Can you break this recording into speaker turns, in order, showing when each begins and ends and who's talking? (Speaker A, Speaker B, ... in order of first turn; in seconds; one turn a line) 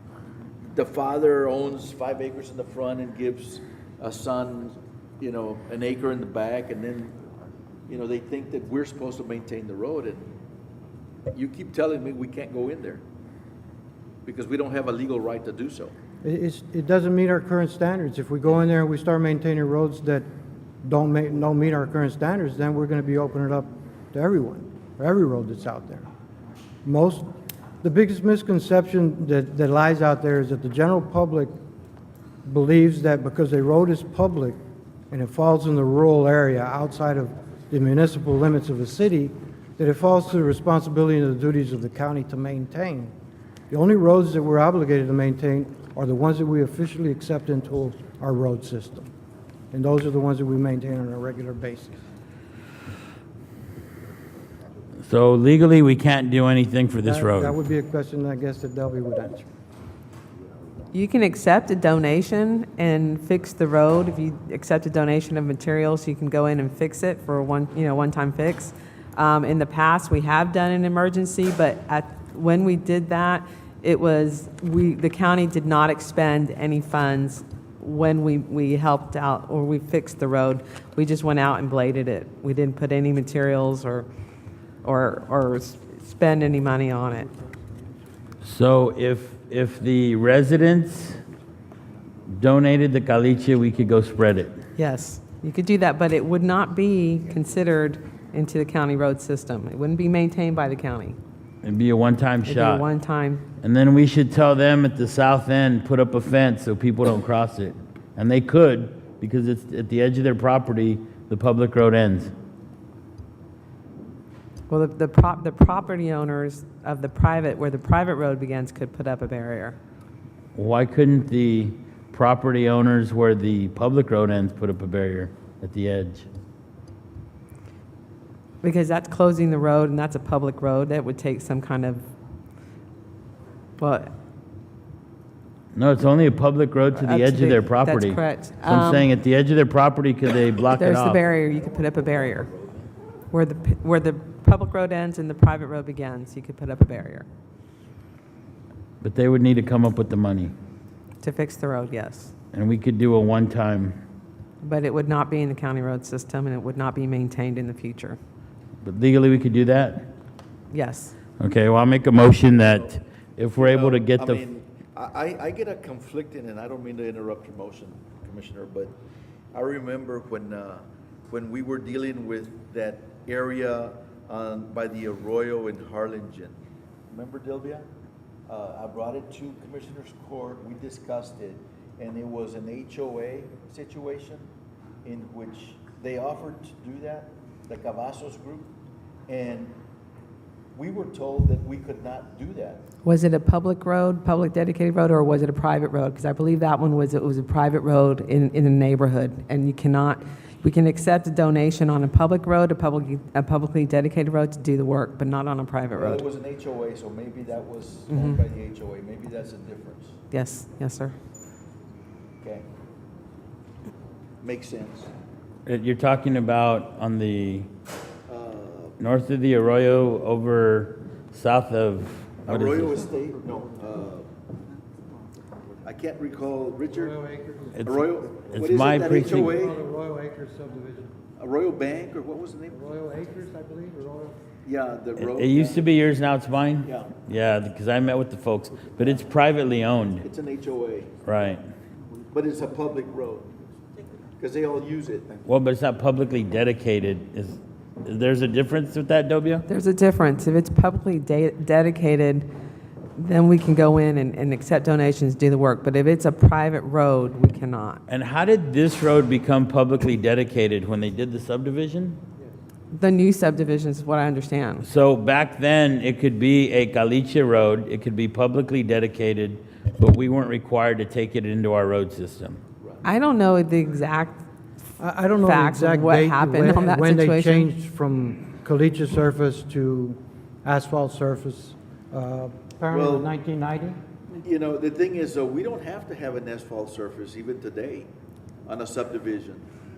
Speaker A: 0.7-7.2
Speaker A: 7.9-10.3
Speaker A: 11.3-13.0
Speaker A: 14.2-15.9
Speaker B: 16.2-20.3
Speaker B: 20.8-26.1
Speaker B: 26.9-27.3
Speaker B: 27.8-31.5
Speaker B: 32.5-34.6
Speaker B: 35.1-43.1
Speaker B: 43.7-49.1
Speaker B: 49.7-52.0
Speaker C: 55.0-57.6
Speaker B: 57.0-59.5
Speaker D: 60.9-84.1
Speaker D: 84.8-87.3
Speaker C: 88.4-91.2
Speaker C: 92.3-94.6
Speaker D: 94.8-101.2
Speaker C: 101.6-102.8
Speaker D: 102.5-103.4
Speaker C: 103.6-112.3
Speaker D: 114.7-119.8
Speaker C: 120.5-126.3
Speaker D: 128.6-132.1
Speaker D: 133.8-134.1
Speaker C: 135.7-141.2
Speaker D: 136.9-139.1
Speaker D: 140.8-142.5
Speaker A: 141.3-142.9
Speaker D: 143.3-147.3
Speaker C: 149.0-150.5
Speaker D: 151.2-152.3
Speaker C: 152.5-154.0
Speaker D: 154.6-158.2
Speaker C: 158.8-160.1
Speaker D: 160.7-161.2
Speaker C: 161.4-164.4
Speaker A: 163.6-168.9
Speaker A: 169.5-176.6
Speaker A: 177.1-177.9
Speaker A: 178.5-184.5
Speaker A: 185.0-188.7
Speaker A: 189.3-189.7
Speaker A: 190.8-192.8
Speaker D: 193.1-206.2
Speaker A: 206.0-210.2
Speaker D: 208.1-208.4
Speaker D: 210.3-211.2
Speaker A: 214.4-215.1
Speaker C: 215.7-217.7
Speaker A: 218.3-218.9
Speaker C: 219.0-223.0
Speaker A: 222.4-224.3
Speaker A: 225.8-227.2
Speaker B: 226.9-227.8
Speaker C: 227.8-229.6
Speaker A: 227.8-229.8
Speaker B: 229.1-231.1
Speaker A: 231.4-232.8
Speaker B: 232.7-234.4
Speaker A: 234.7-236.0
Speaker C: 235.2-240.3
Speaker A: 236.8-237.2
Speaker A: 240.2-241.2
Speaker C: 241.2-241.6
Speaker A: 242.3-243.5
Speaker A: 244.4-245.4
Speaker C: 245.5-249.7
Speaker D: 249.7-252.5
Speaker D: 253.2-258.0
Speaker C: 258.1-262.2
Speaker D: 262.9-264.9
Speaker C: 264.8-272.6
Speaker D: 273.0-274.4
Speaker B: 275.0-284.0
Speaker D: 275.4-277.7
Speaker A: 282.9-283.3
Speaker A: 284.4-288.1
Speaker A: 288.7-289.6